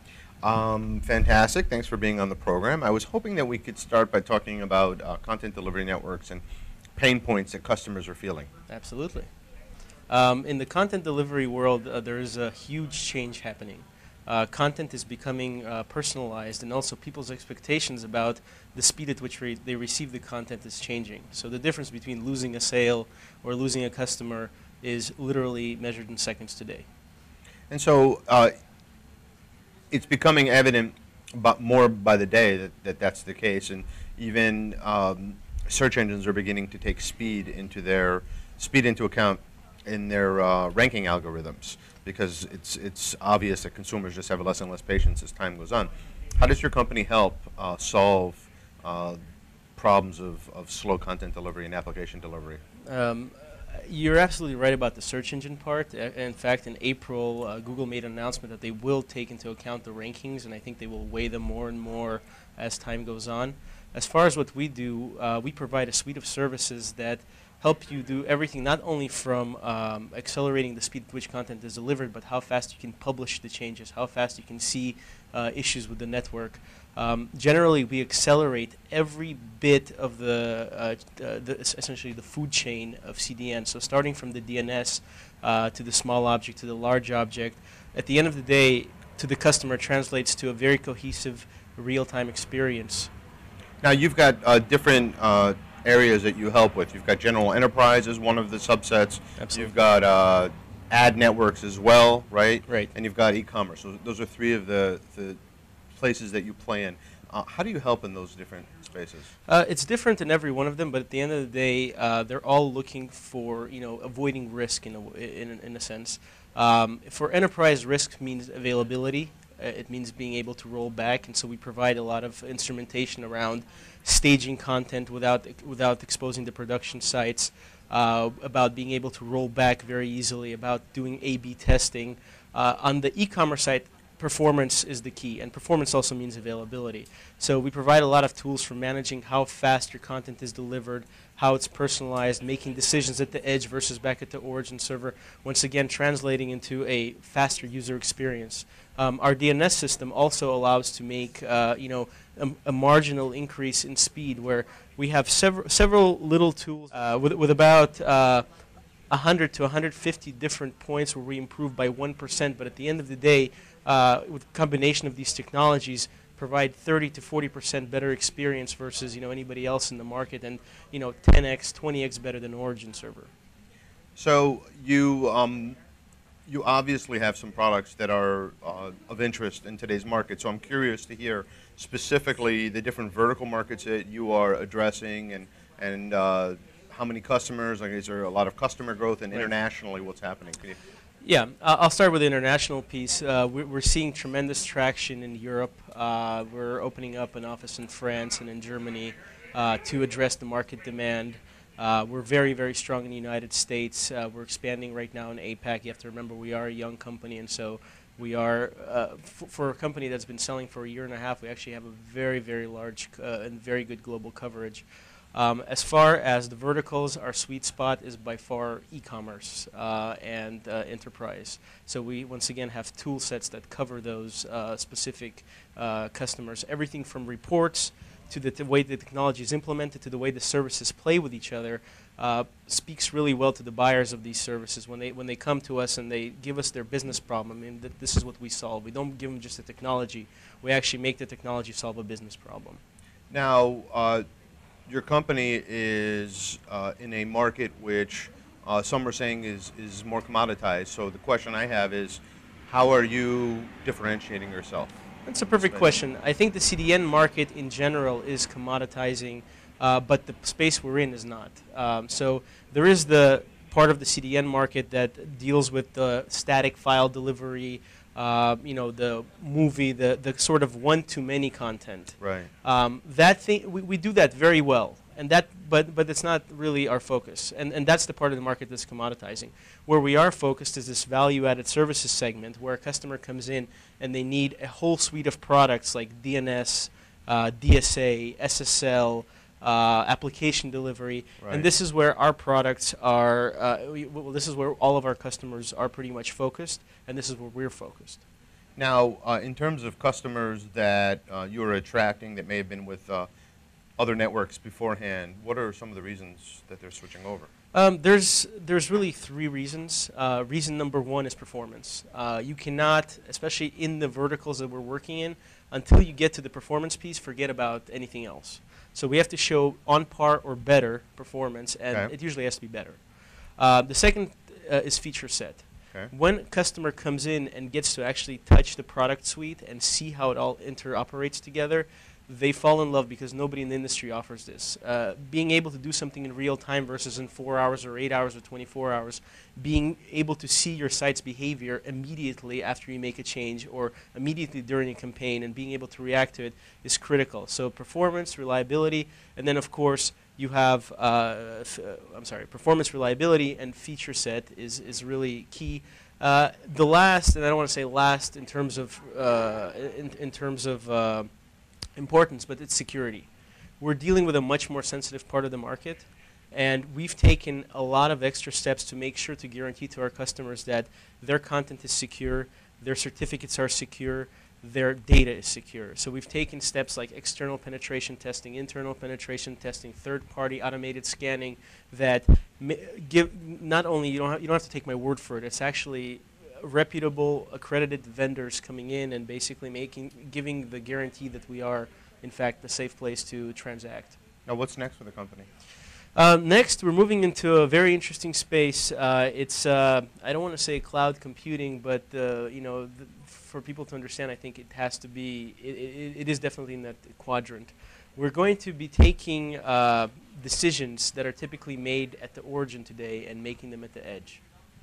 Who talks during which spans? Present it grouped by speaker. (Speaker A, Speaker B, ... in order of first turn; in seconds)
Speaker A: 0.4-6.4, 7.0-8.5, 27.7-28.5, 29.9-49.2, 49.8-52.6, 93.8-105.4, 106.0-109.3, 174.2-175.8, 176.5-190.8, 243.3-244.2, 244.9-254.9, 255.6-255.9, 272.2-272.5, 291.4-291.6, 298.8-303.3, 304.0-307.5, 394.5-395.5
Speaker B: 8.7-9.3, 10.1-26.8, 52.9-93.1, 99.4-99.8, 109.5-158.4, 159.1-173.3, 191.2-242.8, 255.2-298.2, 307.7-323.0, 323.6-361.3, 362.0-363.3, 363.8-394.1, 396.1-414.4